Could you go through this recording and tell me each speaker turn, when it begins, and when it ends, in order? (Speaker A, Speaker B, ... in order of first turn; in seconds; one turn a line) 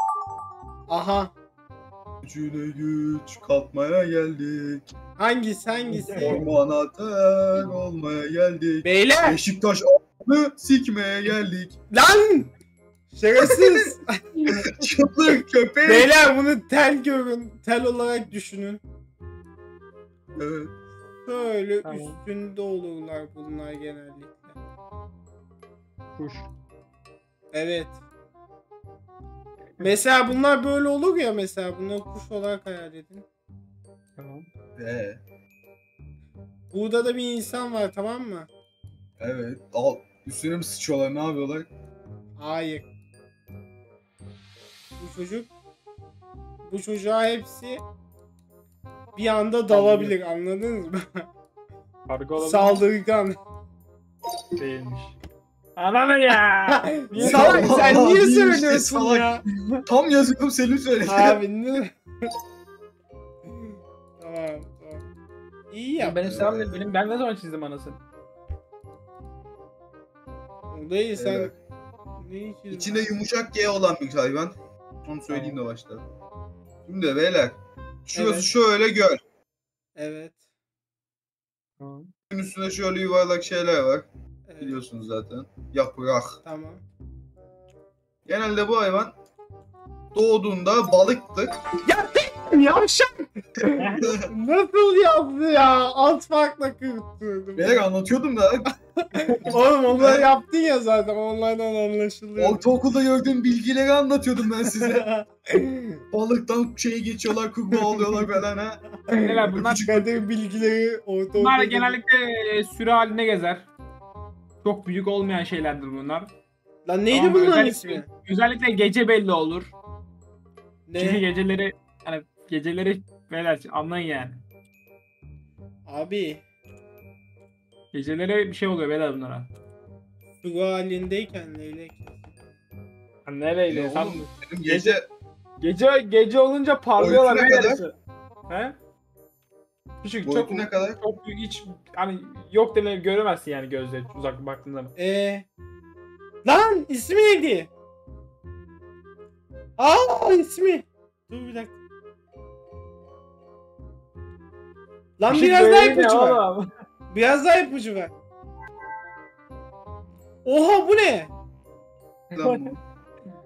Speaker A: 0.9-1.3
Speaker B: 2.2-4.8
Speaker A: 5.2-6.5
Speaker C: 5.9-6.4
Speaker B: 6.1-11.8
Speaker A: 8.8-9.4
Speaker A: 11.9-12.5
Speaker A: 13.1-14.0
Speaker B: 14.7-16.1
Speaker A: 15.8-18.8
Speaker B: 20.4-20.7
Speaker A: 21.2-24.5
Speaker C: 21.8-22.2
Speaker C: 26.1-26.5
Speaker A: 27.5-27.9
Speaker C: 29.8-30.3
Speaker A: 29.8-33.2
Speaker C: 34.2-34.5
Speaker B: 34.8-35.2
Speaker A: 36.7-38.5
Speaker B: 39.2-41.7
Speaker A: 42.4-42.9
Speaker A: 45.0-45.5
Speaker A: 46.6-47.8
Speaker A: 49.1-51.2
Speaker C: 49.7-50.1
Speaker C: 52.1-52.8
Speaker A: 52.4-53.4
Speaker C: 54.5-55.2
Speaker C: 55.8-57.8
Speaker A: 56.8-59.4
Speaker B: 57.1-61.4
Speaker C: 59.5-59.8
Speaker A: 61.0-61.9
Speaker A: 63.5-65.0
Speaker A: 65.7-66.2
Speaker C: 66.0-68.0
Speaker B: 66.2-66.8
Speaker A: 70.7-71.5
Speaker B: 71.2-71.5
Speaker A: 72.2-73.1
Speaker B: 72.7-76.0
Speaker C: 75.3-75.6
Speaker B: 76.9-77.6
Speaker B: 78.1-79.2
Speaker A: 78.1-78.5
Speaker A: 80.0-80.3
Speaker C: 81.8-82.1
Speaker B: 82.3-84.1
Speaker A: 84.5-84.9
Speaker B: 84.6-86.4
Speaker A: 86.4-86.8
Speaker B: 88.2-89.1
Speaker B: 90.1-91.6
Speaker A: 91.8-97.9
Speaker C: 93.8-94.1
Speaker B: 94.0-94.3
Speaker B: 97.6-98.7
Speaker A: 99.2-102.7
Speaker B: 99.5-100.3
Speaker B: 102.4-105.1
Speaker A: 104.6-106.0
Speaker B: 106.1-108.8
Speaker A: 107.7-108.3
Speaker A: 109.1-112.0
Speaker C: 109.1-110.0
Speaker B: 109.5-110.0
Speaker C: 111.3-113.7
Speaker C: 114.6-116.3
Speaker A: 116.8-118.1
Speaker C: 117.1-119.7
Speaker A: 120.9-121.2
Speaker C: 121.0-124.4
Speaker A: 125.9-126.4
Speaker C: 127.9-129.5
Speaker A: 130.4-132.3
Speaker C: 133.2-135.0
Speaker B: 133.7-135.1
Speaker C: 135.6-137.9
Speaker B: 137.0-137.8
Speaker C: 138.5-138.8
Speaker C: 140.0-144.9
Speaker B: 140.2-141.0
Speaker A: 145.0-145.4
Speaker A: 146.4-147.7
Speaker A: 149.8-151.8
Speaker A: 155.2-156.4
Speaker C: 155.3-156.7
Speaker A: 157.1-158.1
Speaker A: 160.4-161.3
Speaker C: 162.3-162.7
Speaker B: 162.3-162.8